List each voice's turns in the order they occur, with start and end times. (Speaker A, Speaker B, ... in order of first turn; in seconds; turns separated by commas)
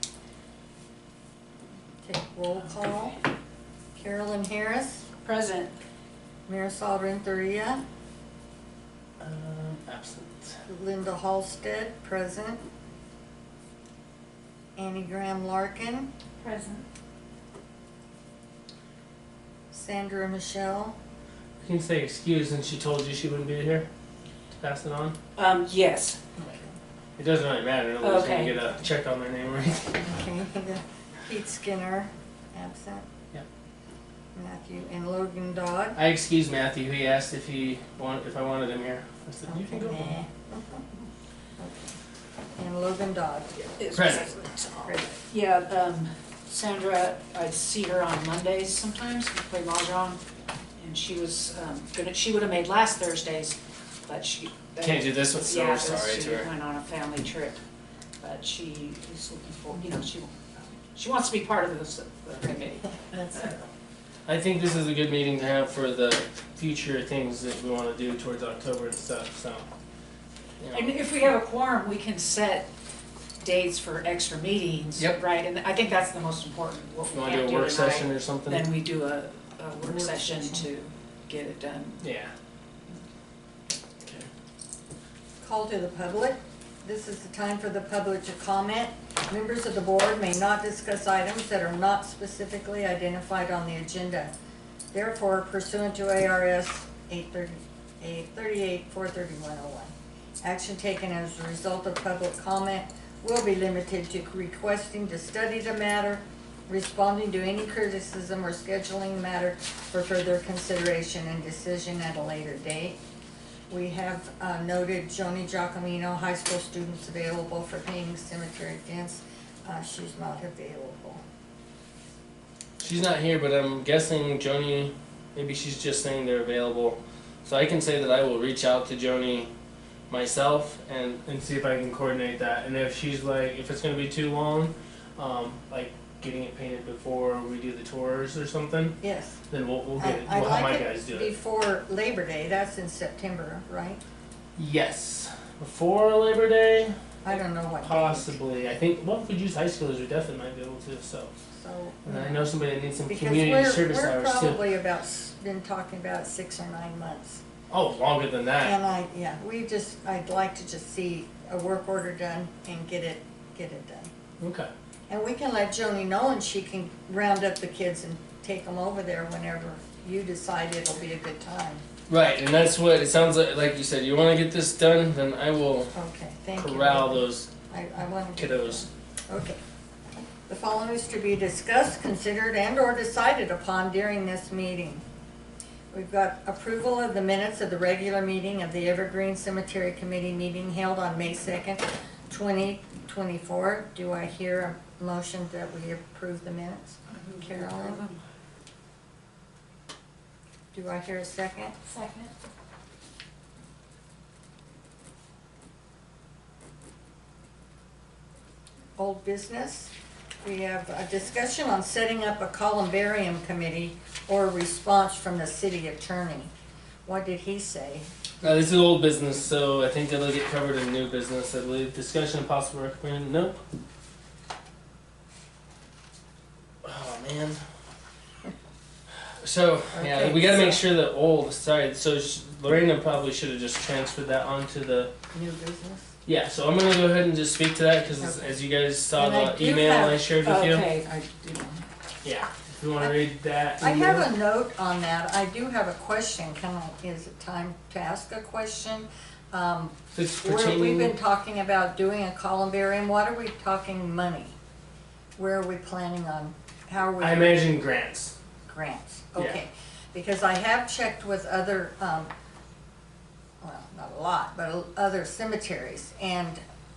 Speaker A: 2.0-3.2, Speaker A: 4.0-5.0, Speaker B: 5.2-5.7, Speaker A: 6.5-7.8, Speaker C: 9.2-10.6, Speaker A: 10.7-12.6, Speaker A: 14.8-16.1, Speaker B: 16.4-16.8, Speaker A: 19.7-20.9, Speaker C: 21.6-23.9, Speaker C: 24.6-25.1, Speaker B: 25.4-26.2, Speaker A: 26.4-26.7, Speaker C: 27.2-30.1, Speaker B: 28.0-28.6, Speaker A: 30.0-33.0, Speaker A: 34.3-36.0, Speaker C: 36.0-40.1, Speaker A: 39.5-40.9, Speaker A: 41.6-42.0, Speaker A: 42.6-43.8, Speaker B: 43.8-50.2, Speaker C: 43.9-44.3, Speaker A: 44.8-45.2, Speaker B: 50.8-57.6, Speaker C: 54.8-56.5, Speaker B: 58.2-60.4, Speaker B: 60.9-63.5, Speaker C: 64.2-69.7, Speaker C: 70.6-71.0, Speaker B: 70.7-72.7, Speaker B: 73.4-82.0, Speaker C: 77.1-78.7, Speaker A: 79.8-80.6, Speaker C: 82.0-82.3, Speaker C: 84.0-84.3, Speaker A: 85.4-94.3, Speaker A: 94.9-113.0, Speaker A: 113.7-121.2, Speaker C: 122.8-129.5, Speaker C: 130.1-139.0, Speaker A: 139.0-139.4, Speaker C: 139.5-141.3, Speaker A: 140.0-144.0, Speaker C: 144.6-151.3, Speaker A: 147.2-148.3, Speaker A: 151.5-152.5, Speaker C: 152.0-154.6, Speaker A: 153.1-157.4, Speaker C: 157.7-158.8, Speaker A: 158.6-164.1, Speaker C: 164.4-164.7, Speaker A: 165.1-171.8, Speaker C: 172.1-175.9, Speaker A: 175.9-179.6, Speaker C: 176.6-177.5, Speaker C: 178.3-178.9, Speaker A: 180.5-185.0, Speaker A: 185.9-198.0, Speaker B: 197.1-198.2, Speaker A: 200.7-201.7, Speaker B: 201.8-202.3, Speaker A: 209.0-216.5, Speaker A: 217.1-218.1, Speaker C: 218.4-223.6, Speaker C: 226.8-227.6, Speaker C: 229.4-235.1, Speaker A: 229.9-230.8, Speaker A: 235.3-236.1, Speaker C: 236.2-240.9, Speaker A: 238.2-238.5, Speaker A: 239.1-240.2, Speaker B: 240.4-241.1, Speaker A: 241.0-241.8, Speaker C: 242.2-244.3, Speaker A: 243.8-254.5, Speaker C: 250.1-251.2, Speaker A: 255.4-257.6, Speaker C: 257.2-258.3, Speaker A: 258.6-262.3, Speaker A: 263.6-266.6